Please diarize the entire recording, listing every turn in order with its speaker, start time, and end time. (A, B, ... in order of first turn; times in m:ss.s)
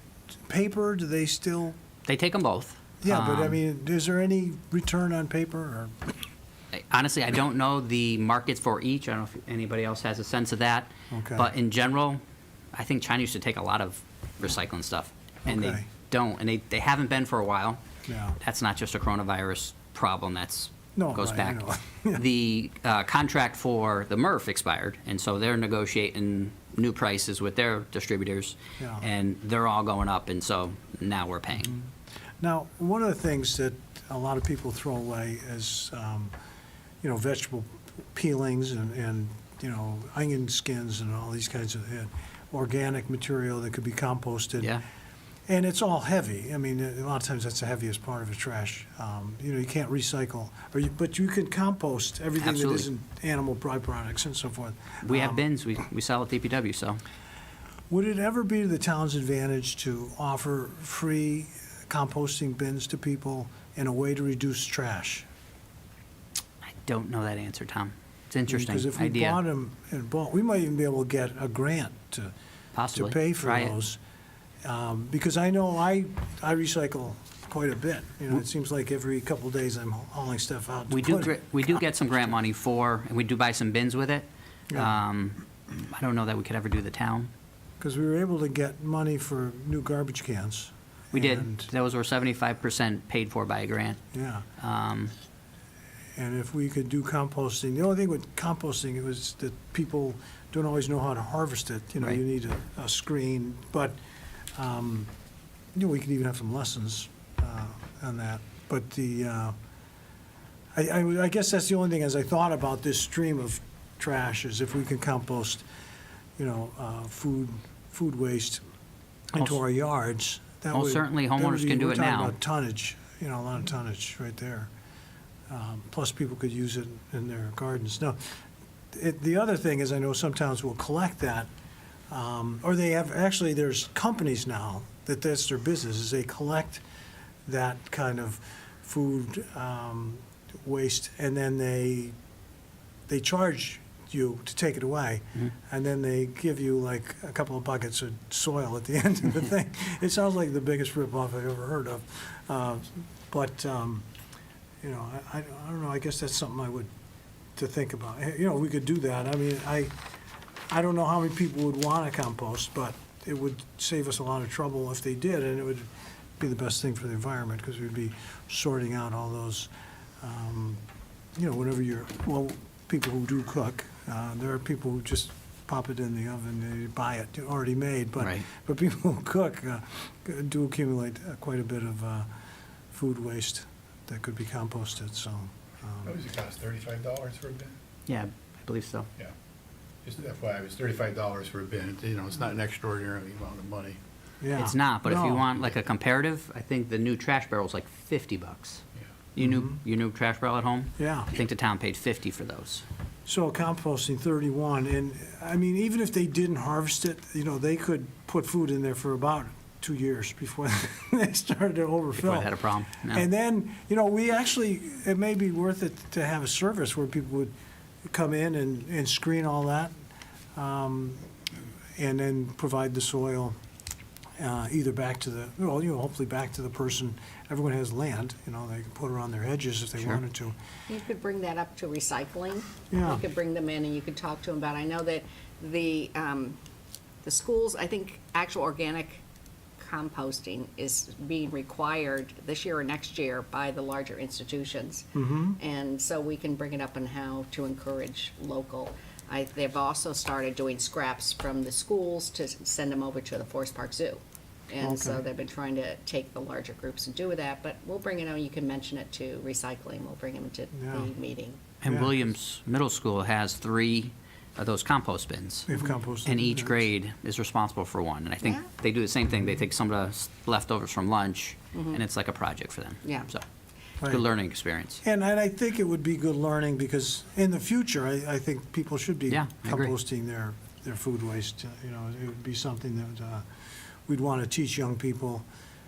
0:00.5-0:01.8 A
0:02.1-0:03.6 B
0:03.0-0:06.2 A
0:06.7-0:12.2 B
0:11.1-0:11.5 A
0:12.7-0:17.8 B
0:15.5-0:15.9 A
0:18.1-0:18.4 A
0:18.4-0:31.8 B
0:21.0-0:22.2 A
0:28.8-0:29.1 A
0:32.4-0:36.3 A
0:37.0-0:44.8 A
0:45.5-0:55.4 A
0:52.4-0:52.9 B
0:55.0-0:57.0 B
0:57.9-1:05.3 A
1:06.6-1:09.4 B
1:08.5-1:12.3 A
1:12.7-1:13.7 B
1:12.9-1:14.0 A
1:14.6-1:21.8 A
1:20.9-1:27.3 B
1:24.7-1:25.0 A
1:27.8-1:31.7 A
1:31.1-1:34.0 B
1:34.1-1:34.5 A
1:34.6-1:35.1 B
1:36.2-1:44.0 A
1:44.6-1:45.1 A
1:45.8-1:49.6 A
1:50.7-1:55.6 A
1:56.4-1:58.6 A
1:59.3-2:04.7 A
2:00.7-2:02.4 B
2:05.5-2:08.2 A
2:08.9-2:11.5 A
2:12.1-2:16.8 A
2:17.5-2:22.2 A
2:23.1-2:34.1 A
2:34.8-2:36.9 A
2:37.6-2:39.9 A
2:40.7-2:49.7 A
2:50.2-2:50.8 A
2:51.4-3:02.3 A
2:58.2-2:58.4 B
3:02.9-3:06.2 A
3:06.0-3:07.8 C
3:08.1-3:09.1 B
3:10.0-3:14.0 C
3:14.4-3:15.5 A
3:14.6-3:18.8 B
3:19.4-3:22.8 B
3:19.4-3:19.8 A
3:21.0-3:21.3 A
3:23.3-3:37.5 A
3:32.2-3:33.2 B
3:38.1-3:39.9 A
3:40.6-3:41.3 A
3:42.0-3:43.6 A
3:44.4-3:50.6 A
3:50.9-3:56.6 D
3:52.9-3:53.2 A
3:57.2-3:59.2 D
3:59.8-4:21.6 D
4:05.2-4:05.6 A
4:14.8-4:15.2 A
4:20.7-4:21.1 A
4:21.8-4:25.7 B
4:21.9-4:22.1 A
4:25.7-4:26.9 A
4:26.2-4:33.4 B
4:31.7-4:32.0 D
4:33.0-4:33.3 D
4:34.1-4:35.0 B
4:35.0-4:43.5 A
4:39.3-4:39.9 B
4:44.1-4:45.5 A